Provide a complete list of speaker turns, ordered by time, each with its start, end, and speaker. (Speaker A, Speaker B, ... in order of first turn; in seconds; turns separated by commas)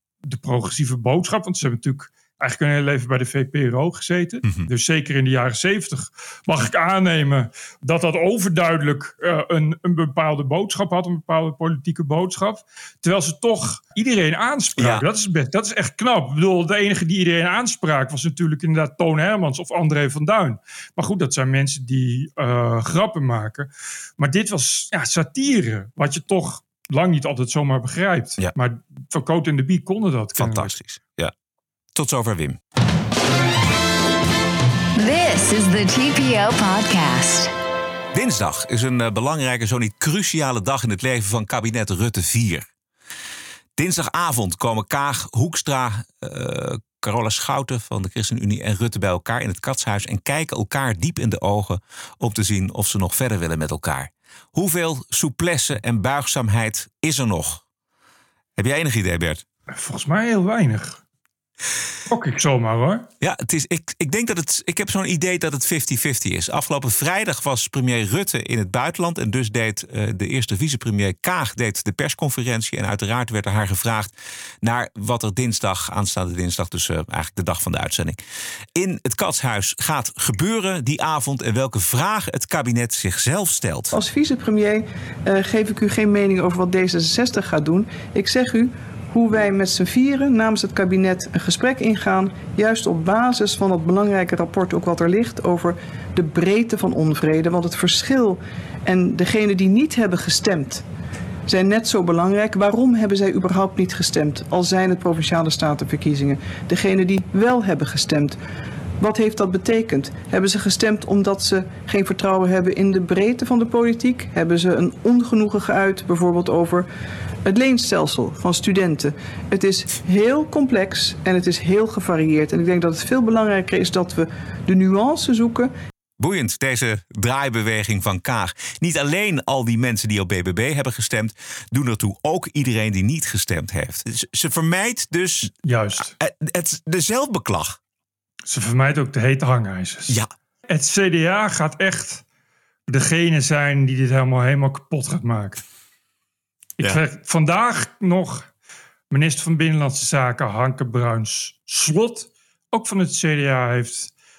Speaker A: 0.2-30.7, Speaker B: 14.8-15.0, Speaker B: 30.4-31.3, Speaker B: 31.9-32.6, Speaker C: 35.0-37.5, Speaker B: 38.1-42.7, Speaker B: 43.8-57.6, Speaker B: 58.6-59.4, Speaker A: 59.7-61.0, Speaker A: 62.1-63.1, Speaker B: 63.2-78.2, Speaker B: 78.7-83.9, Speaker D: 83.9-100.8, Speaker D: 101.5-108.4, Speaker D: 109.0-116.8, Speaker D: 117.5-125.7, Speaker B: 126.2-135.5, Speaker A: 135.6-136.1, Speaker B: 136.2-137.8, Speaker A: 138.5-140.2, Speaker A: 140.7-142.2, Speaker A: 142.9-145.6, Speaker A: 146.8-148.5, Speaker A: 149.1-154.1